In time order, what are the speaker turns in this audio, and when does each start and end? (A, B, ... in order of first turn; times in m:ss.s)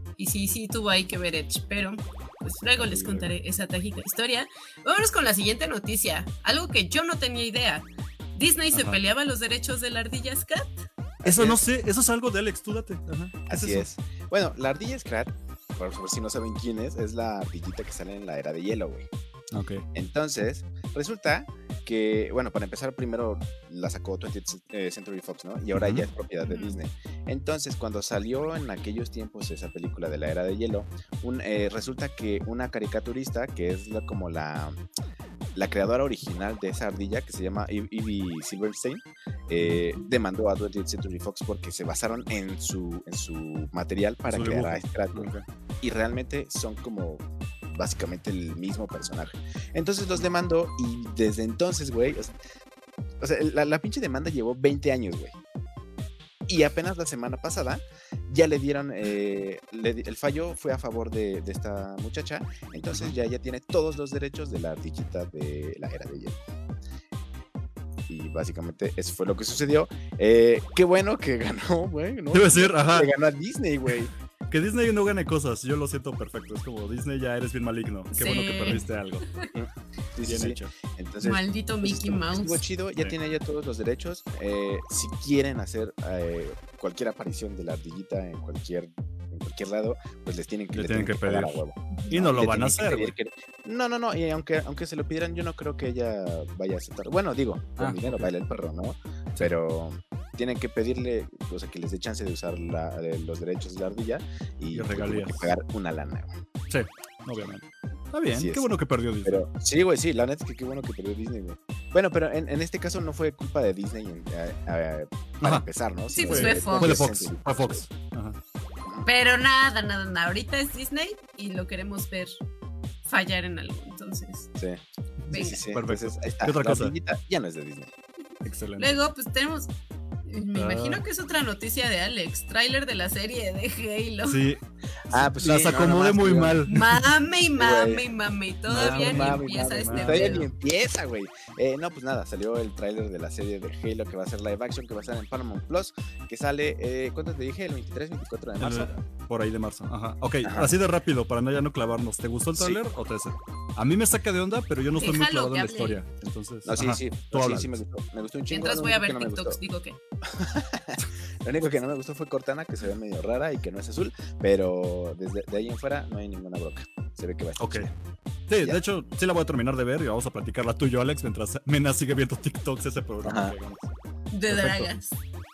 0:00.2-0:10.8 A
0:02.8-0:03.3 B
0:08.7-0:09.0 B
0:11.2-0:11.6 C
0:11.2-0:13.9 B
0:13.5-0:19.1 C
0:19.5-0:19.9 B
0:19.9-0:34.8 C
0:25.7-0:26.0 B
0:26.4-0:26.8 A
0:35.5-0:45.3 C
0:39.6-0:40.0 B
0:44.3-0:45.4 B
0:45.8-0:52.3 C
0:53.2-0:55.4 C
0:56.5-1:06.4 C
1:08.1-1:14.1 C
1:12.3-1:13.1 B
1:14.5-1:19.2 B
1:18.1-1:19.5 A
1:19.5-1:46.3 C
1:20.2-1:20.7 B
1:21.2-1:22.6 A
1:30.7-1:31.6 B
1:32.1-1:33.1 B
1:37.8-1:38.3 B
1:44.7-1:45.5 B
1:46.7-1:49.4 B
1:48.3-1:48.6 C
1:49.2-1:57.8 C
1:56.1-1:57.0 A
1:56.2-1:58.4 B
1:59.0-2:02.4 A
2:03.0-2:04.5 A
2:04.6-2:07.9 C
2:05.2-2:06.9 B
2:05.3-2:05.6 A
2:08.4-2:09.0 B
2:08.8-2:09.7 A
2:10.2-2:14.4 A
2:10.5-2:11.0 B
2:14.2-2:17.0 B
2:15.1-2:16.6 C
2:16.7-2:20.5 A
2:17.6-2:18.0 C
2:18.7-2:20.4 B
2:18.7-2:28.9 C
2:28.6-2:37.8 B
2:30.4-2:30.7 C
2:35.0-2:36.0 A
2:36.6-2:39.6 C
2:38.5-2:40.0 A
2:40.2-2:47.9 C
2:47.6-2:47.9 B
2:48.5-2:53.9 B
2:53.2-2:53.5 C
2:54.3-2:55.2 A
2:54.5-2:54.9 B